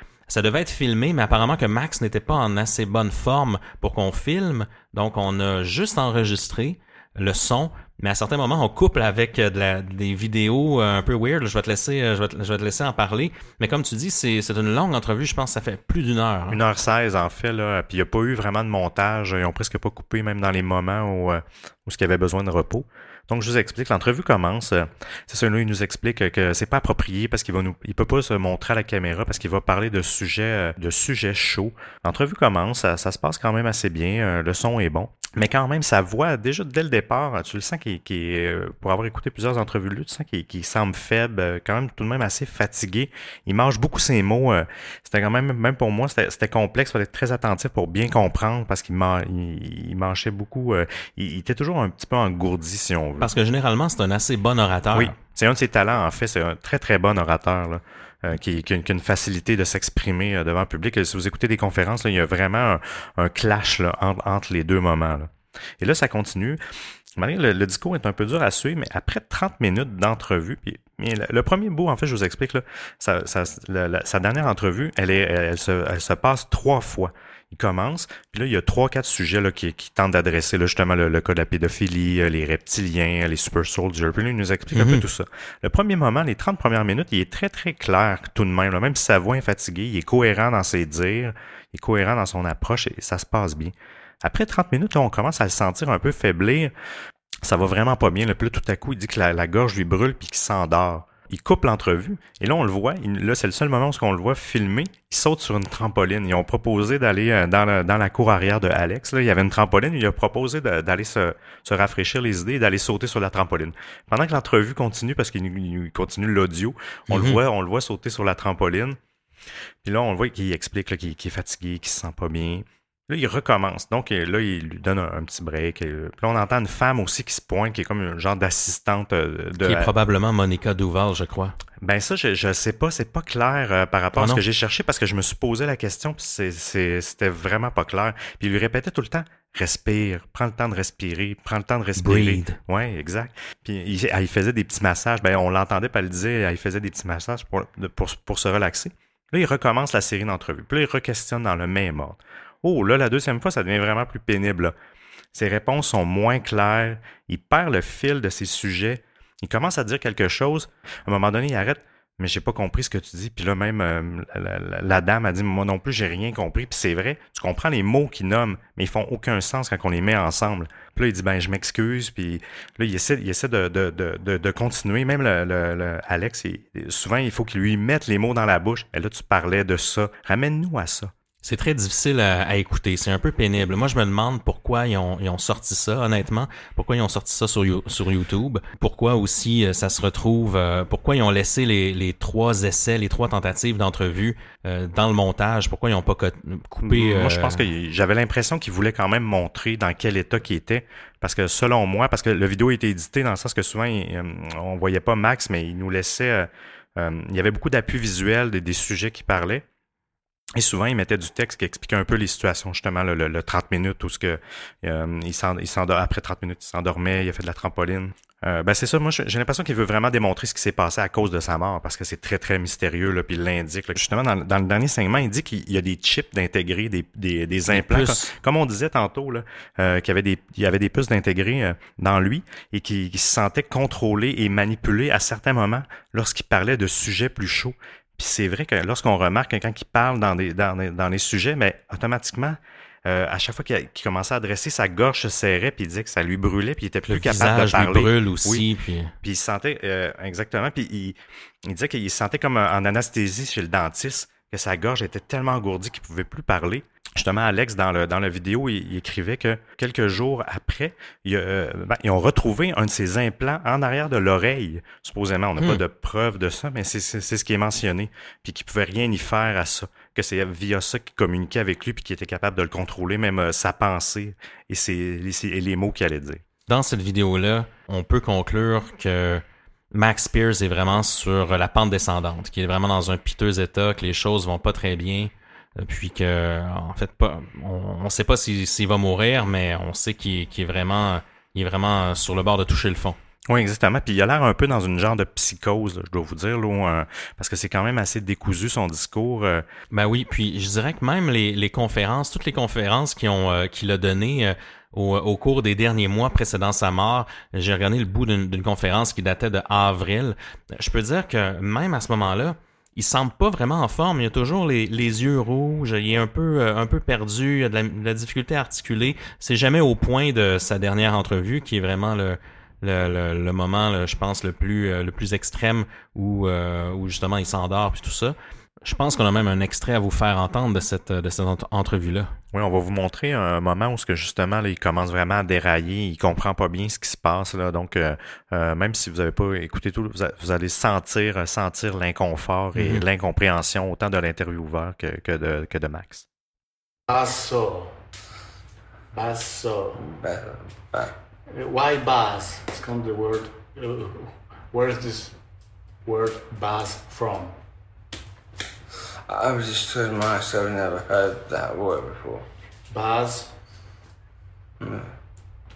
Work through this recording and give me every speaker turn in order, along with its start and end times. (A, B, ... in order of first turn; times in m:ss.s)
0:00.3-0:16.6 A
0:16.5-0:53.3 B
0:53.2-0:55.2 A
0:54.9-1:06.6 B
1:07.2-1:36.7 B
1:24.7-1:25.1 A
1:37.4-1:59.0 B
1:57.1-1:57.4 A
1:59.8-2:09.9 B
2:09.6-2:11.6 A
2:11.8-2:34.7 B
2:14.2-2:14.4 A
2:22.0-2:22.6 A
2:35.3-3:01.1 B
3:01.4-3:17.7 A
3:16.8-3:29.6 B
3:30.6-4:08.7 B
3:47.7-3:48.3 A
4:07.1-4:09.1 A
4:09.2-4:36.4 B
4:36.7-4:53.2 A
4:53.5-4:59.6 B
4:59.9-5:32.3 A
5:32.5-5:46.3 B
5:42.8-5:43.0 A
5:47.1-5:48.0 C
5:49.1-5:50.0 C
5:50.0-5:51.1 D
5:51.5-5:55.4 C
5:56.0-5:57.6 C
5:59.3-6:02.5 D
6:02.9-6:03.5 C
6:04.8-6:05.1 D